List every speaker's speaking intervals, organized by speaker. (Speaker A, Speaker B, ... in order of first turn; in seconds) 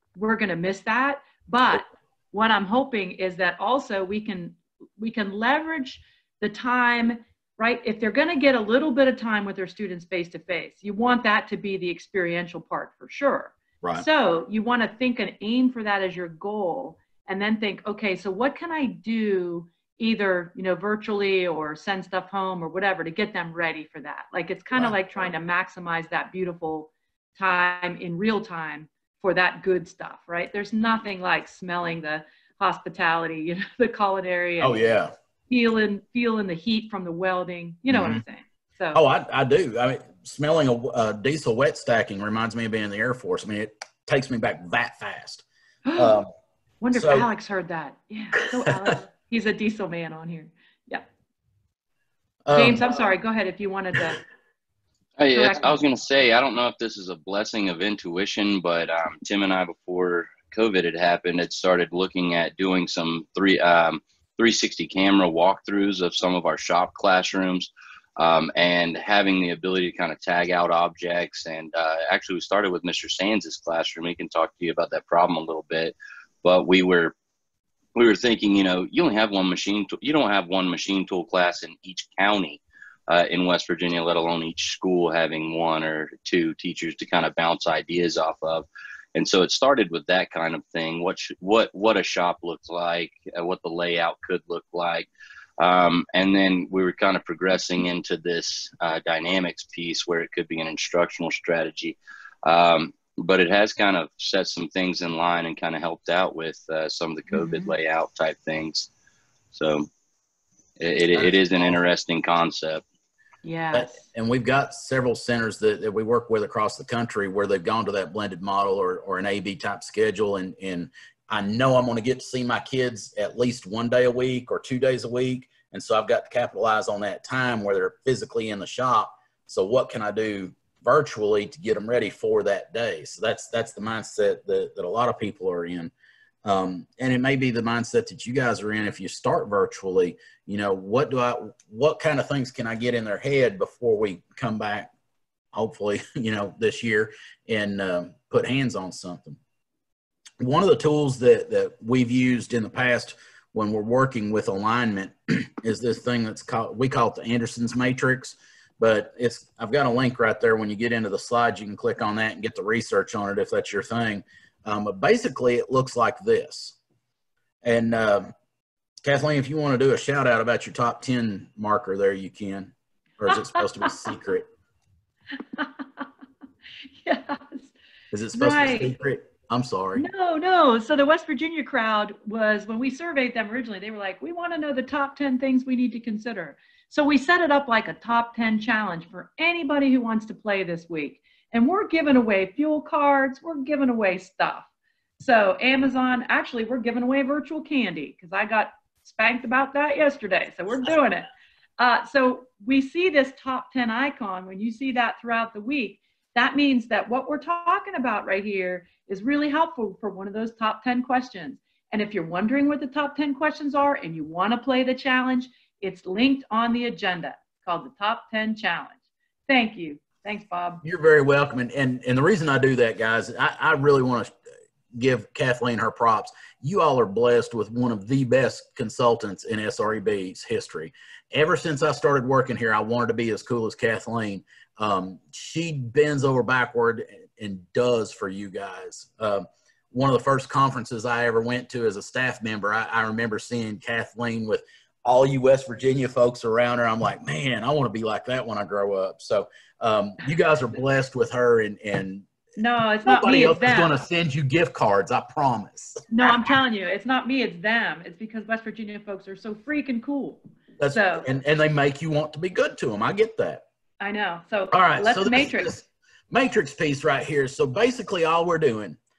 Speaker A: 0.1-34.8, 35.5-39.0, 45.8-46.2, 46.8-51.0, 52.5-54.2, 55.4-55.6, 107.3-107.7, 113.4-114.0, 173.3-173.8, 177.0-177.7, 178.3-179.0, 179.9-194.7, 195.2-218.9, 219.5-220.8, 252.6-253.9, 256.1-260.4, 260.9-261.3, 264.0-265.8
Speaker B: 34.6-35.1, 37.9-38.2, 38.9-45.4, 46.0-46.3, 46.9-47.3, 48.4-48.7, 52.5-52.8, 113.7-135.9, 136.4-144.9, 145.5-149.4, 150.4-166.8, 167.6-168.3, 169.0-174.4, 178.1-180.0, 220.8-224.3, 224.9-252.3, 253.1-256.5, 260.8-263.6, 264.7-269.0
Speaker C: 55.2-77.1, 77.9-95.1, 95.6-108.9, 109.5-109.9, 110.8-112.8